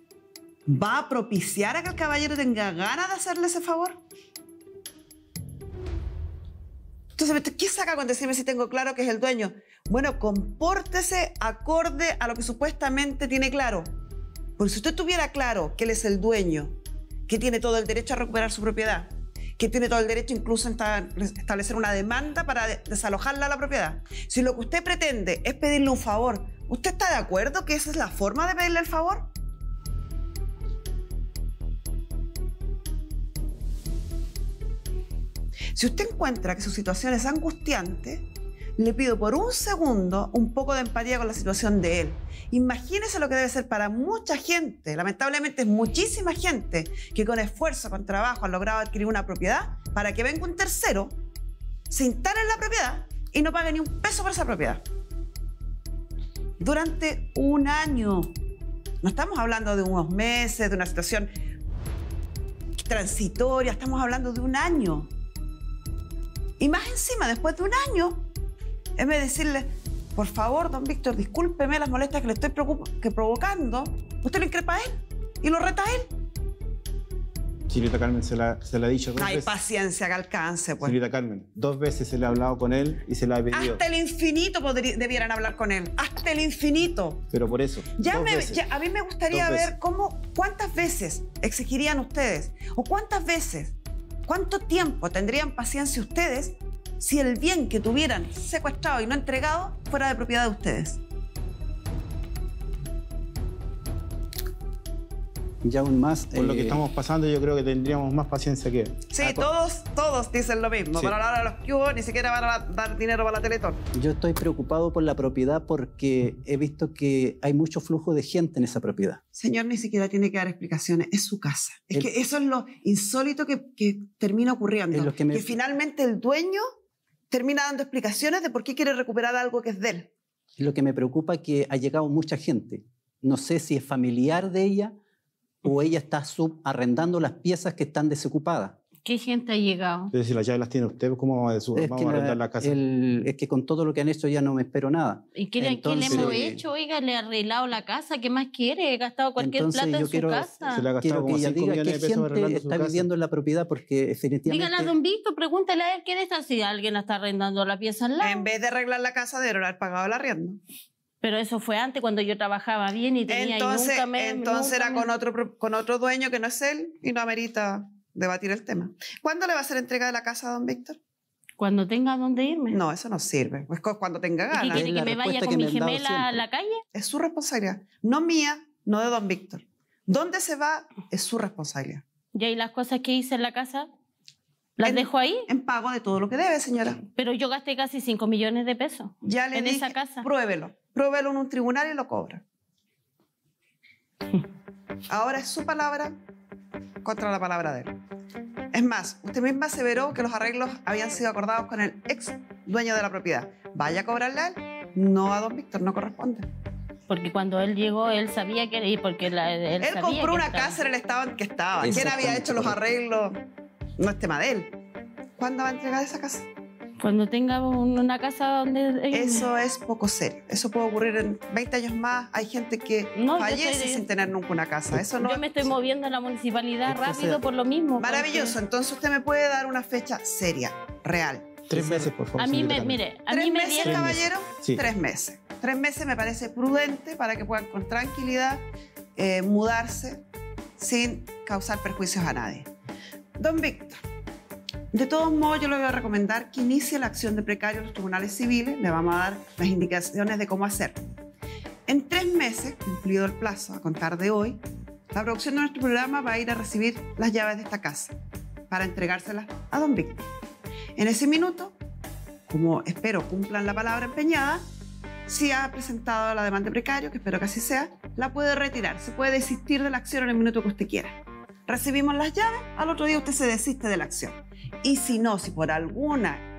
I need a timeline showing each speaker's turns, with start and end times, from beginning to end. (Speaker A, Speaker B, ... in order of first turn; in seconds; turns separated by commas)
Speaker A: 0.7-4.0, Speaker A: 7.2-13.9, Speaker A: 14.6-16.8, Speaker A: 17.3-29.3, Speaker A: 35.8-38.2, Speaker A: 38.8-51.1, Speaker A: 51.9-54.8, Speaker A: 56.6-58.3, Speaker A: 59.0-61.3, Speaker A: 62.8-65.1, Speaker A: 66.6-68.3, Speaker A: 69.0-76.1, Speaker B: 77.7-79.5, Speaker A: 79.2-81.0, Speaker B: 80.8-83.8, Speaker A: 83.5-87.2, Speaker B: 87.3-88.6, Speaker A: 88.0-93.8, Speaker B: 89.3-89.7, Speaker A: 94.3-101.0, Speaker C: 105.6-106.8, Speaker B: 106.3-109.0, Speaker A: 109.1-113.8, Speaker C: 109.2-109.5, Speaker C: 113.9-119.2, Speaker A: 119.3-126.6, Speaker C: 124.9-125.6, Speaker A: 127.3-130.1, Speaker C: 130.6-134.9, Speaker C: 135.6-138.8, Speaker D: 139.1-140.1, Speaker B: 140.1-142.8, Speaker C: 141.8-146.6, Speaker D: 145.4-150.9, Speaker B: 146.0-146.4, Speaker C: 149.4-154.9, Speaker B: 150.7-153.1, Speaker D: 154.5-158.5, Speaker A: 158.2-160.6, Speaker D: 161.2-165.1, Speaker A: 163.3-171.0, Speaker D: 171.6-172.8, Speaker A: 172.7-174.9, Speaker D: 174.5-176.8, Speaker C: 174.7-176.4, Speaker A: 176.9-182.0, Speaker D: 182.3-183.9, Speaker D: 184.8-185.5, Speaker A: 184.8-187.0, Speaker D: 187.2-190.3, Speaker A: 189.2-192.4, Speaker A: 195.1-196.2, Speaker A: 197.0-198.0, Speaker A: 198.7-206.5, Speaker D: 207.1-210.8, Speaker A: 209.8-213.4, Speaker C: 211.8-212.8, Speaker A: 214.0-214.8, Speaker A: 215.4-216.4, Speaker D: 217.0-219.5, Speaker A: 219.1-225.5, Speaker D: 223.2-224.0, Speaker D: 225.2-228.6, Speaker C: 226.9-227.4, Speaker A: 228.0-231.6, Speaker B: 231.7-233.0, Speaker C: 231.7-232.1, Speaker D: 232.4-234.2, Speaker A: 233.3-238.6, Speaker B: 233.8-234.8, Speaker A: 239.2-240.2, Speaker A: 240.8-242.7, Speaker A: 243.4-244.0, Speaker A: 244.9-251.2, Speaker A: 251.9-258.1, Speaker A: 258.7-260.3, Speaker A: 261.0-261.7, Speaker A: 262.5-264.6, Speaker A: 265.3-276.4